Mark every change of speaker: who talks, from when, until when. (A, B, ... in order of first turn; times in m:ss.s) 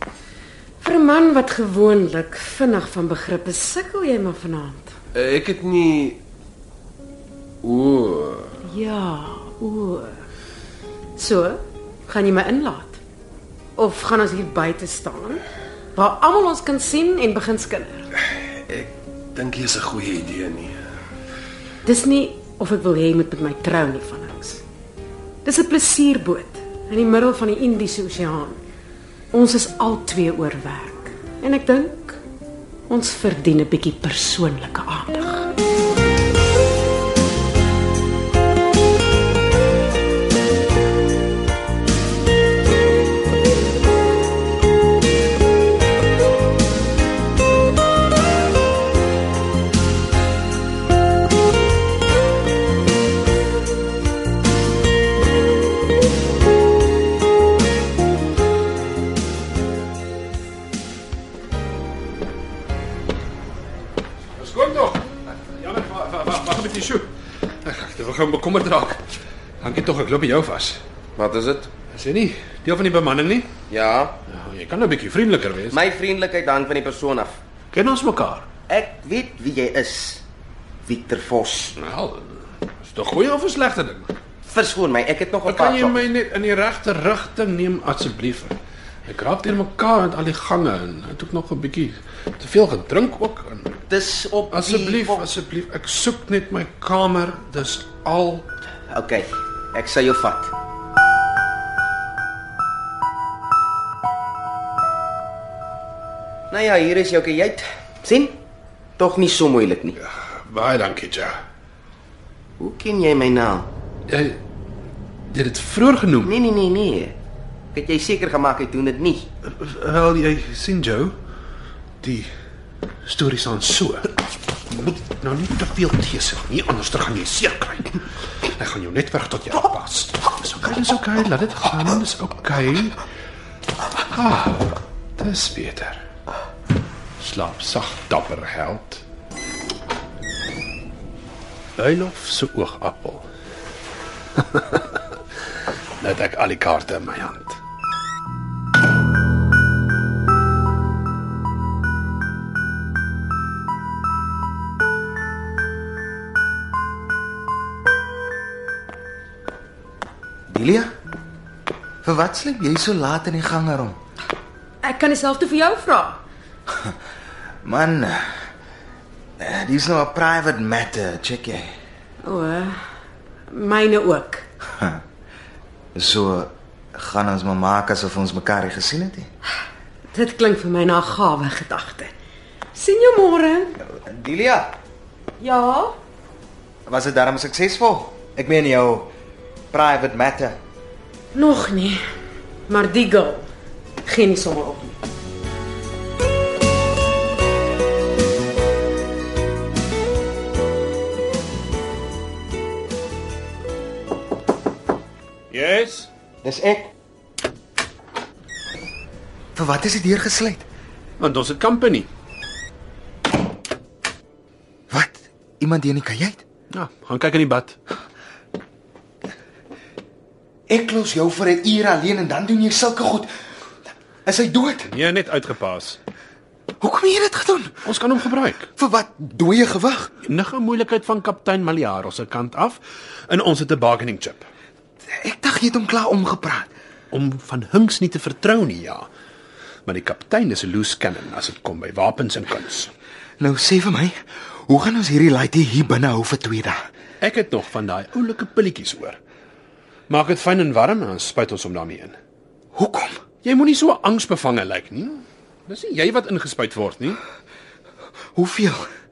0:00.8-0:04.9 A
0:05.1-0:06.2 B
0:07.6-0:08.5 B
0:08.6-0:10.1 A
0:11.2-0:13.0 A
0:13.8-0:15.4 A
0:15.9-0:18.1 A
0:18.7-0:20.8 B
0:21.8-0:24.6 A
0:25.4-0:28.6 A
0:29.3-0:32.2 A
0:32.9-0:35.5 A
1:04.4-1:07.1 C
1:07.6-1:09.0 C
1:09.6-1:10.8 C
1:11.2-1:11.7 D
1:11.9-1:13.5 C
1:13.7-1:14.2 D
1:14.3-1:15.8 C
1:15.7-1:17.4 D
1:17.7-1:18.5 C
1:18.7-1:20.2 D
1:20.8-1:21.7 D
1:21.8-1:24.1 C
1:24.4-1:26.0 D
1:25.4-1:33.8 C
1:33.9-1:35.2 D
1:34.5-1:38.5 C
1:38.9-1:40.5 D
1:46.5-1:48.4 D
1:49.0-1:50.0 D
1:50.0-1:51.4 C
1:52.6-1:53.7 D
1:54.1-1:54.4 C
1:55.3-1:56.4 C
1:56.2-1:57.2 D
1:57.7-1:59.3 D
1:59.4-2:01.2 C
2:02.0-2:02.3 C
2:03.0-2:04.1 C
2:04.7-2:13.0 C
2:14.0-2:16.0 C
2:17.2-2:19.0 C
2:21.8-2:23.3 C
2:24.4-2:25.0 C
2:26.0-2:27.6 C
2:40.5-2:40.9 E
2:42.0-2:44.0 E
2:44.8-2:46.2 A
2:47.6-2:48.4 E
2:49.4-2:51.7 E
2:52.2-2:52.7 A
2:53.5-2:54.4 A
2:55.9-2:59.3 E
3:00.1-3:02.1 A
3:02.7-3:03.8 A
3:04.0-3:04.7 D
3:05.4-3:05.9 A
3:06.9-3:09.1 E
3:09.7-3:10.6 E
3:11.3-3:12.0 A
3:12.7-3:13.5 A
3:14.0-3:15.0 A
3:25.5-3:26.1 C
3:26.4-3:26.9 D
3:29.5-3:30.6 E
3:31.2-3:32.1 C
3:34.9-3:36.4 E
3:36.7-3:37.8 C
3:40.7-3:43.3 E
3:44.2-3:44.9 E
3:44.8-3:46.0 C
3:46.8-3:47.9 E
3:47.8-3:48.7 C
3:48.8-3:50.1 E
3:50.2-3:54.4 C
3:55.1-3:56.7 E
3:57.1-3:59.1 C
3:59.8-4:02.9 C
4:03.4-4:04.1 E
4:04.7-4:06.8 E
4:07.2-4:09.2 C
4:10.1-4:12.1 C
4:12.7-4:13.2 E
4:13.4-4:17.2 C
4:18.3-4:18.9 E